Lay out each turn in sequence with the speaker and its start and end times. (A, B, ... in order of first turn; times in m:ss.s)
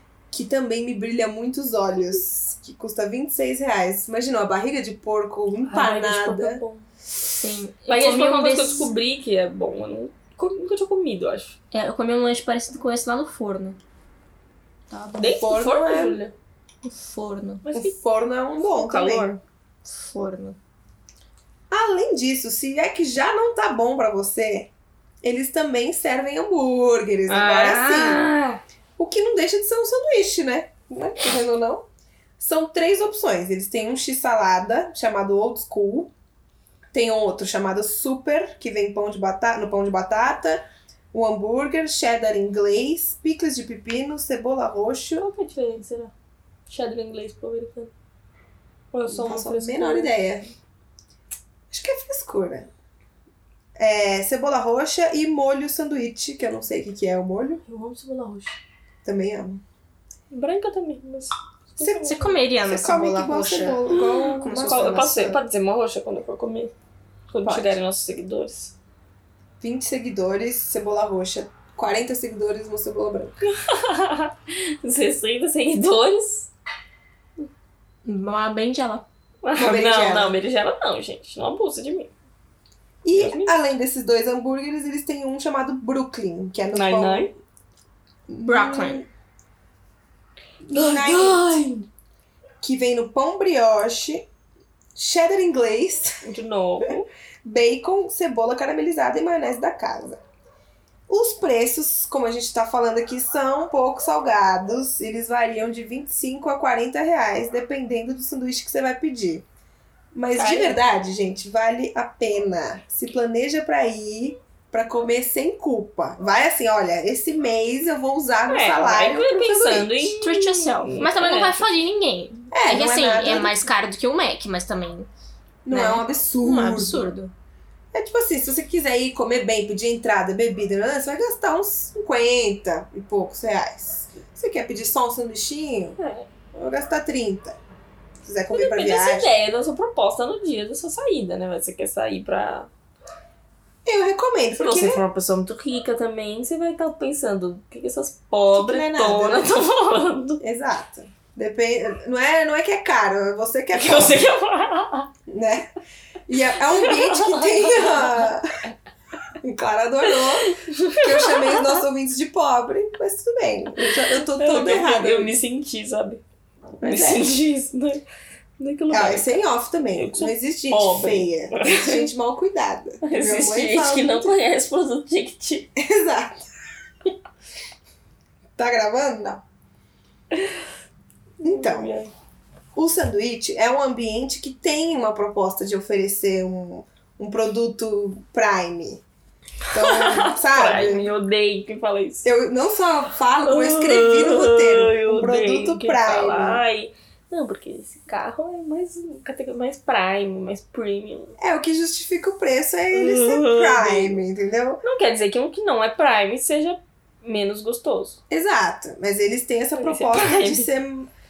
0:00.3-0:06.6 A
0:05.7-0:06.9 B
0:07.4-0:08.9 C
0:07.9-0:11.6 B
0:11.7-0:13.8 C
0:14.9-0:15.4 C
0:15.2-0:16.3 B
0:15.4-0:16.2 A
0:16.8-0:17.6 C
0:17.6-0:18.0 B
0:17.7-0:19.3 A
0:18.6-0:19.4 B
0:19.8-0:20.6 C
0:21.7-0:24.7 A
0:25.2-0:28.2 A
0:27.3-0:28.6 B
0:29.0-0:31.8 A
0:32.4-0:36.1 A
0:36.9-0:45.3 A
0:45.2-0:46.1 B
0:46.7-0:47.9 B
0:48.9-0:50.1 B
0:49.1-0:50.5 A
0:51.7-0:52.7 A
0:53.8-0:57.6 A
0:57.7-0:58.6 B
0:59.0-0:59.6 A
1:00.3-1:02.4 B
1:01.8-1:05.4 A
1:02.0-1:05.4 C
1:03.9-1:06.7 B
1:07.3-1:08.7 B
1:07.4-1:07.8 A
1:09.6-1:13.4 A
1:13.4-1:16.5 B
1:18.0-1:19.0 C
1:19.4-1:22.1 B
1:19.5-1:20.3 A
1:23.0-1:27.3 A
1:23.1-1:23.5 B
1:26.7-1:27.3 B
1:28.3-1:29.1 A
1:28.4-1:29.0 C
1:30.6-1:31.6 A
1:30.7-1:31.9 B
1:32.6-1:34.3 A
1:34.9-1:36.2 A
1:36.2-1:37.1 B
1:37.4-1:40.2 A
1:41.1-1:49.4 A
1:50.1-2:00.0 A
1:50.4-1:50.8 B
1:58.5-2:01.7 B
2:00.1-2:05.1 C
2:02.5-2:03.6 A
2:05.6-2:07.1 A
2:05.7-2:07.3 C
2:07.9-2:16.0 A
2:16.0-2:16.3 B
2:16.5-2:17.6 A
2:18.2-2:19.3 A
2:18.5-2:22.7 B
2:23.8-2:25.0 A
2:24.6-2:30.4 B
2:28.5-2:29.6 A
2:30.4-2:34.3 A
2:33.7-2:35.1 B
2:35.3-2:35.7 A
2:36.3-2:38.6 A
2:36.7-2:38.3 B
2:39.4-2:45.4 A
2:40.1-2:41.8 B
2:43.8-2:46.2 B
2:46.8-2:47.3 A
2:46.8-2:48.0 B
2:48.6-2:52.1 B
2:48.9-2:54.3 A
2:53.0-2:55.7 B
2:55.8-2:56.4 A
2:58.6-2:59.4 A
3:00.3-3:00.6 B
3:01.4-3:02.1 B
3:01.4-3:01.9 A
3:02.8-3:09.0 A
3:09.7-3:11.1 A
3:09.7-3:12.3 B
3:12.2-3:16.6 A
3:13.4-3:21.3 B
3:21.4-3:24.8 A
3:22.9-3:24.2 B
3:24.8-3:28.2 B
3:28.3-3:31.1 A
3:29.8-3:30.7 B